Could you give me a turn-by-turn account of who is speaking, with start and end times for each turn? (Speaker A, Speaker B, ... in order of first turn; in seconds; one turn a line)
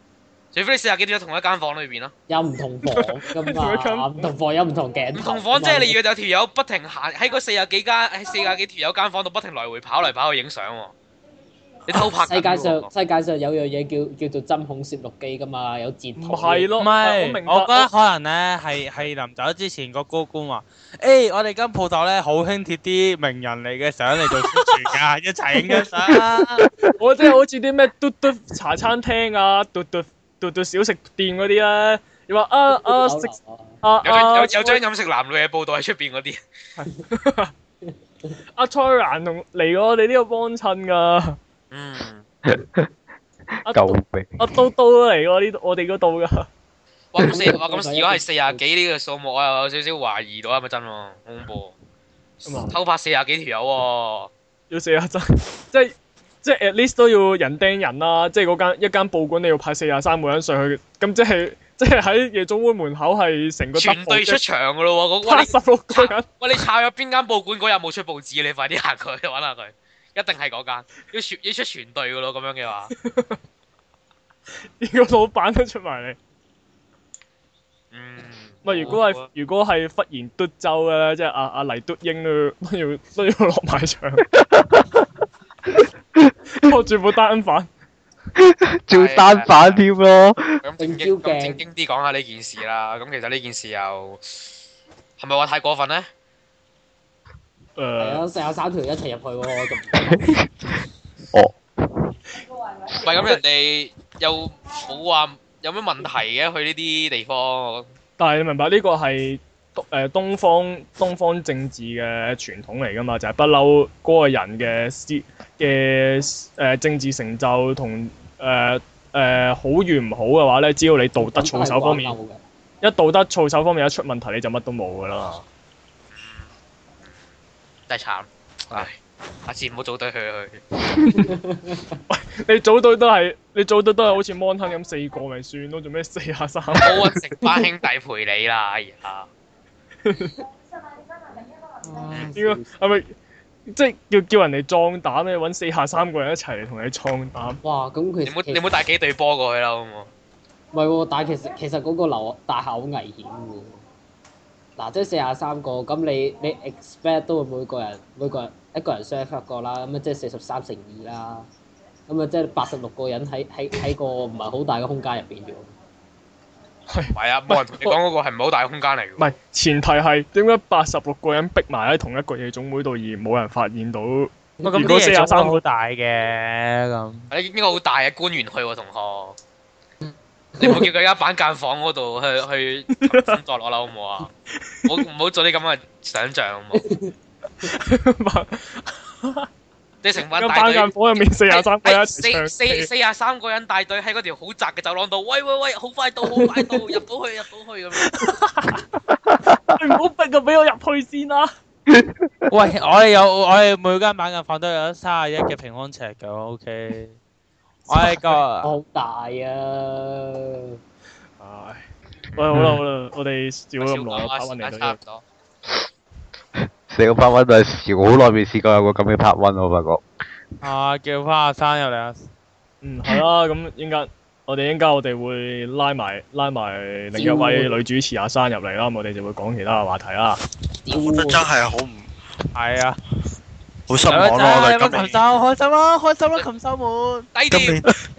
Speaker A: 0.5-2.1
Speaker B: 2.3-6.0
Speaker C: 2.9-4.3
Speaker A: 5.1-10.9
Speaker A: 11.9-12.9
Speaker B: 11.9-16.7
Speaker C: 16.2-17.9
Speaker D: 16.8-26.7
Speaker C: 25.6-26.2
Speaker C: 27.0-34.8
Speaker B: 32.8-33.8
Speaker A: 34.0-36.4
Speaker C: 36.8-37.5
Speaker B: 37.9-38.4
Speaker C: 38.6-41.4
Speaker A: 41.7-42.2
Speaker E: 42.5-42.9
Speaker C: 43.6-46.5
Speaker E: 43.7-44.4
Speaker A: 47.1-51.8
Speaker B: 47.2-48.6
Speaker A: 52.4-54.3
Speaker C: 52.5-52.7
Speaker C: 54.7-64.4
Speaker A: 63.8-72.9
Speaker C: 65.2-66.3
Speaker C: 73.0-73.4
Speaker C: 74.8-76.2
Speaker A: 77.9-79.2
Speaker C: 78.6-84.3
Speaker B: 78.7-79.0
Speaker E: 84.4-85.0
Speaker C: 86.5-87.7
Speaker E: 88.4-90.6
Speaker A: 88.9-89.8
Speaker A: 90.6-94.4
Speaker B: 90.8-91.6
Speaker A: 95.2-96.1
Speaker C: 97.8-98.2
Speaker B: 98.0-100.3
Speaker E: 100.0-100.5
Speaker E: 101.3-102.1
Speaker A: 103.0-107.9
Speaker C: 108.2-122.2
Speaker B: 121.2-122.4
Speaker C: 122.8-125.4
Speaker A: 126.1-126.5
Speaker A: 127.9-130.6
Speaker C: 131.1-131.3
Speaker B: 131.2-132.0
Speaker C: 132.1-137.1
Speaker A: 136.8-139.3
Speaker C: 140.1-140.3
Speaker B: 141.8-142.7
Speaker C: 142.3-143.2
Speaker C: 143.7-147.6
Speaker B: 147.6-148.6
Speaker A: 148.3-150.1
Speaker B: 150.7-153.8
Speaker B: 154.8-161.5
Speaker B: 162.1-165.7
Speaker C: 166.9-168.0
Speaker A: 167.1-169.2
Speaker C: 169.2-175.6
Speaker B: 174.6-174.9
Speaker D: 174.7-177.3
Speaker A: 177.3-179.4
Speaker B: 180.0-180.9
Speaker A: 180.6-184.3
Speaker C: 182.9-183.4
Speaker C: 184.6-185.0
Speaker A: 184.9-186.8
Speaker B: 186.7-187.1
Speaker C: 187.6-189.5
Speaker A: 190.0-198.3
Speaker C: 190.3-192.9
Speaker C: 198.0-198.8
Speaker E: 199.2-199.8
Speaker C: 199.8-201.5
Speaker E: 201.9-202.2
Speaker D: 202.5-207.2
Speaker D: 207.9-208.7
Speaker B: 208.6-210.8
Speaker C: 211.4-211.8
Speaker C: 212.4-215.0
Speaker A: 213.8-215.2
Speaker E: 216.9-220.0
Speaker D: 220.6-222.3
Speaker C: 222.8-230.4
Speaker B: 227.2-227.8
Speaker B: 230.9-231.4
Speaker F: 230.9-232.1
Speaker D: 232.5-233.0
Speaker F: 233.9-235.2
Speaker D: 234.1-237.3
Speaker A: 234.8-235.1
Speaker A: 237.3-237.8
Speaker F: 237.5-238.0